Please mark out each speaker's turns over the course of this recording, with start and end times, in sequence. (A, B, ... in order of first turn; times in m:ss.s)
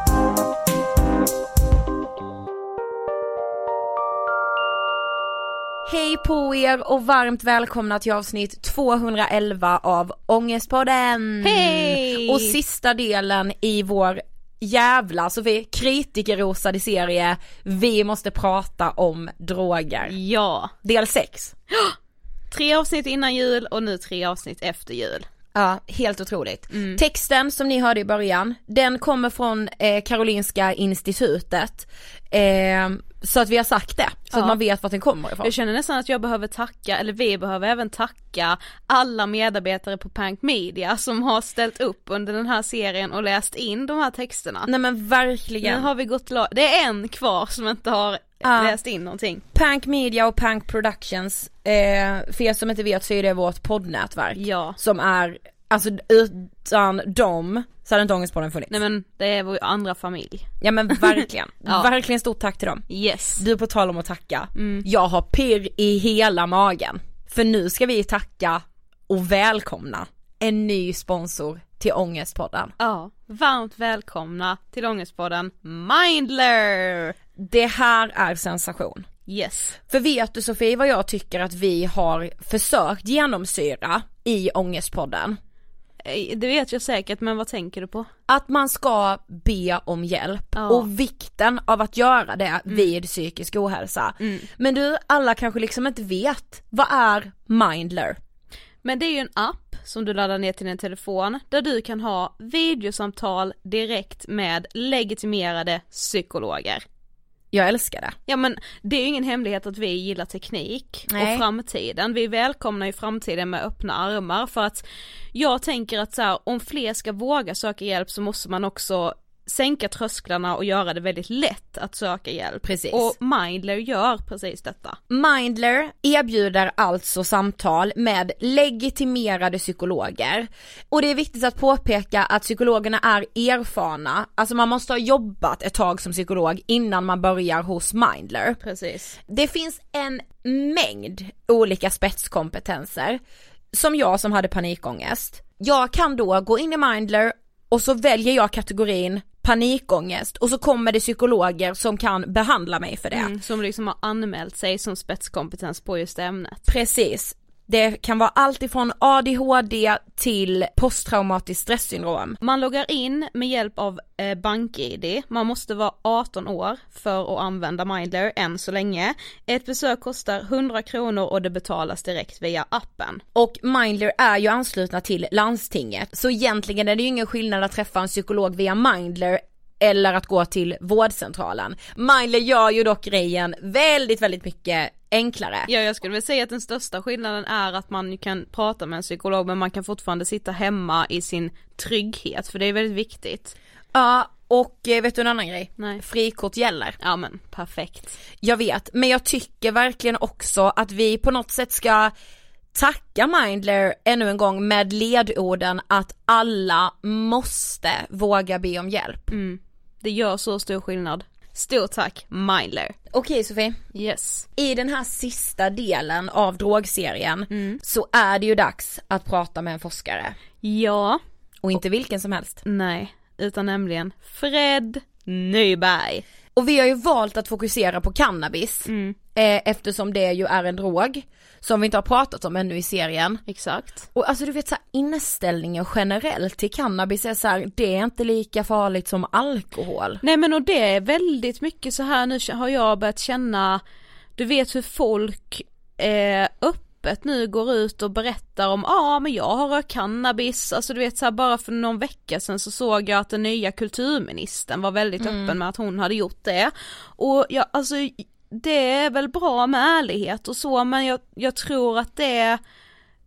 0:05.9-0:20.2 A
0:11.4-0:12.5 B
0:20.1-0:20.7 B
0:20.8-0:21.5 A
0:22.5-0:25.2 B
0:25.6-0:35.5 A
0:26.7-0:27.0 B
0:35.4-0:44.7 B
0:44.7-0:45.9 A
0:45.6-0:49.4 B
0:48.4-0:48.8 A
0:49.5-0:58.8 A
0:54.4-0:54.8 B
0:58.7-1:00.5 B
1:00.6-1:12.7 A
1:02.9-1:03.4 B
1:04.6-1:04.8 B
1:12.8-1:17.1 B
1:17.4-1:19.1 A
1:19.3-1:19.8 B
1:19.9-1:25.4 A
1:26.0-1:28.1 B
1:28.3-1:38.2 A
1:30.6-1:30.9 B
1:34.2-1:34.5 B
1:38.8-1:46.8 B
1:47.5-1:48.2 A
1:48.3-2:05.0 B
1:51.1-1:51.4 A
2:02.6-2:03.1 A
2:05.1-2:18.6 A
2:18.6-2:19.2 B
2:19.3-2:23.2 A
2:23.7-2:33.3 A
2:33.1-2:36.6 B
2:36.7-2:42.4 A
2:42.4-2:53.2 B
2:53.4-3:05.7 A
3:05.7-3:13.6 B
3:13.9-3:17.0 A
3:17.0-3:18.2 B
3:18.4-3:22.1 A
3:22.7-3:29.3 A
3:29.3-3:33.0 B
3:33.1-3:33.8 A
3:33.9-3:34.5 B
3:34.6-3:40.4 A
3:37.5-3:37.8 B
3:40.6-3:41.2 B
3:41.6-3:42.6 A
3:42.6-3:46.2 B
3:46.6-3:53.4 A
3:48.9-3:49.2 B
3:53.5-3:54.1 B
3:54.1-4:00.2 A
4:00.2-4:03.8 B
4:04.4-4:22.6 B
4:15.2-4:15.6 A